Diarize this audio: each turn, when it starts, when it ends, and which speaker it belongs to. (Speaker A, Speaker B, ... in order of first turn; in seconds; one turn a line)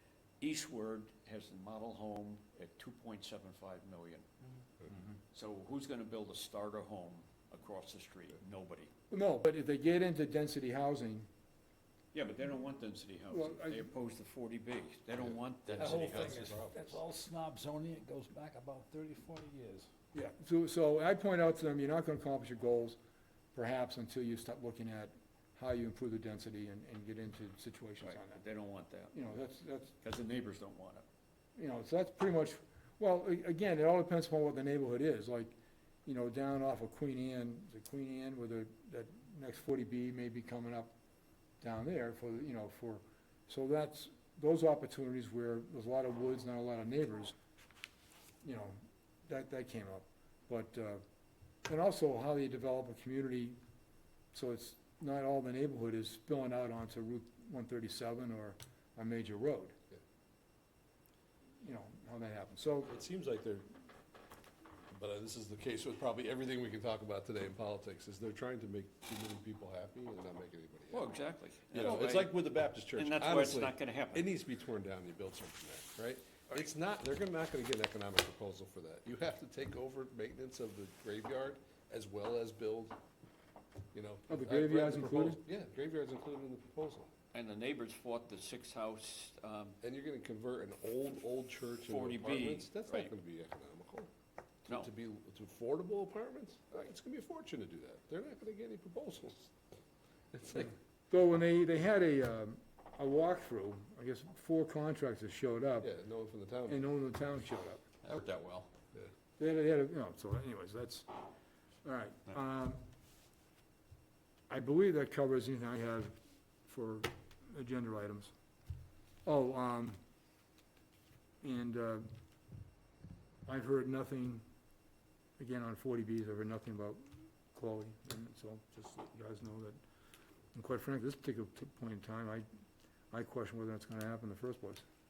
Speaker A: 0.4-4.2
Speaker A: 5.3-8.9
Speaker B: 9.1-11.3
Speaker A: 12.1-16.6
Speaker B: 13.3-13.9
Speaker C: 15.2-17.0
Speaker D: 15.8-19.9
Speaker B: 20.1-23.0
Speaker B: 23.5-28.4
Speaker A: 28.0-29.2
Speaker B: 29.1-29.9
Speaker A: 30.0-31.1
Speaker B: 31.6-35.5
Speaker B: 36.1-40.9
Speaker B: 41.6-47.4
Speaker B: 48.4-51.0
Speaker B: 51.7-53.6
Speaker B: 54.3-59.8
Speaker B: 61.6-63.0
Speaker C: 62.9-63.7
Speaker C: 64.9-71.1
Speaker A: 70.9-72.3
Speaker C: 71.7-83.0
Speaker A: 72.9-74.3
Speaker C: 83.9-87.1
Speaker B: 84.3-85.4
Speaker A: 87.3-89.8
Speaker C: 89.8-94.1
Speaker A: 91.8-93.1
Speaker C: 94.7-99.5
Speaker C: 100.3-100.8
Speaker B: 101.1-105.9
Speaker C: 105.8-106.8
Speaker B: 106.7-107.8
Speaker A: 108.0-108.7
Speaker B: 109.4-111.1
Speaker B: 111.8-112.8
Speaker B: 114.5-118.3
Speaker B: 119.2-120.0
Speaker B: 121.4-122.1
Speaker B: 123.5-124.4
Speaker B: 125.4-129.8
Speaker B: 130.5-132.5
Speaker B: 133.1-134.8